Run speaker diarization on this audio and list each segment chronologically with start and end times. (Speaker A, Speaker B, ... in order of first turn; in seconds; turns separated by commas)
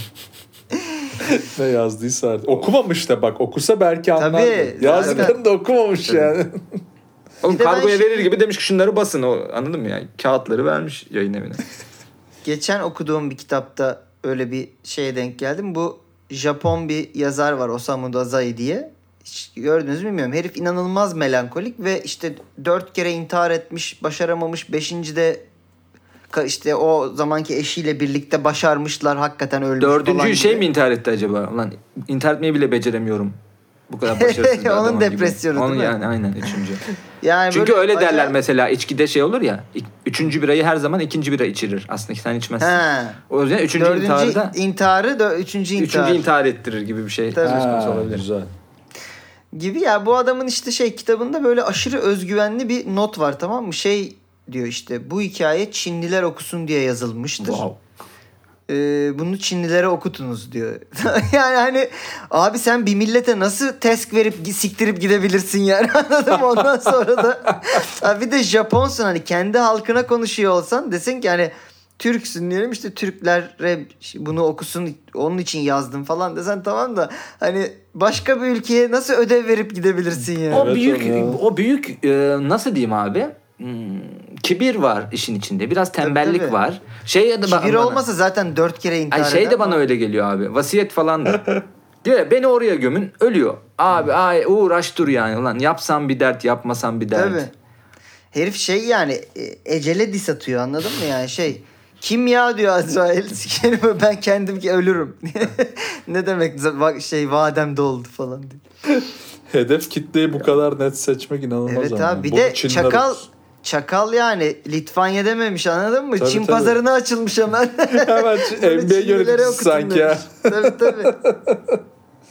Speaker A: 1.2-6.6, Speaker B: 4.2-5.4, Speaker C: 4.9-5.3, Speaker C: 6.0-6.3, Speaker C: 7.4-11.6, Speaker B: 7.4-8.3, Speaker B: 12.4-25.4, Speaker B: 26.3-30.6, Speaker C: 29.8-33.4, Speaker C: 33.9-36.9, Speaker B: 34.0-36.0, Speaker B: 37.2-38.3, Speaker C: 37.5-44.5, Speaker B: 42.6-43.2, Speaker B: 43.8-46.2, Speaker C: 45.8-48.2, Speaker B: 47.3-47.7, Speaker A: 47.4-48.5, Speaker B: 49.5-57.6, Speaker C: 57.4-57.8, Speaker B: 58.7-80.7, Speaker A: 80.5-81.4, Speaker C: 80.5-88.0, Speaker B: 86.0-86.5, Speaker B: 87.4-89.8, Speaker C: 89.1-97.5, Speaker B: 97.1-97.5, Speaker B: 98.3-108.6, Speaker A: 109.5-113.2, Speaker B: 111.7-121.2, Speaker A: 116.2-116.8, Speaker A: 117.9-121.8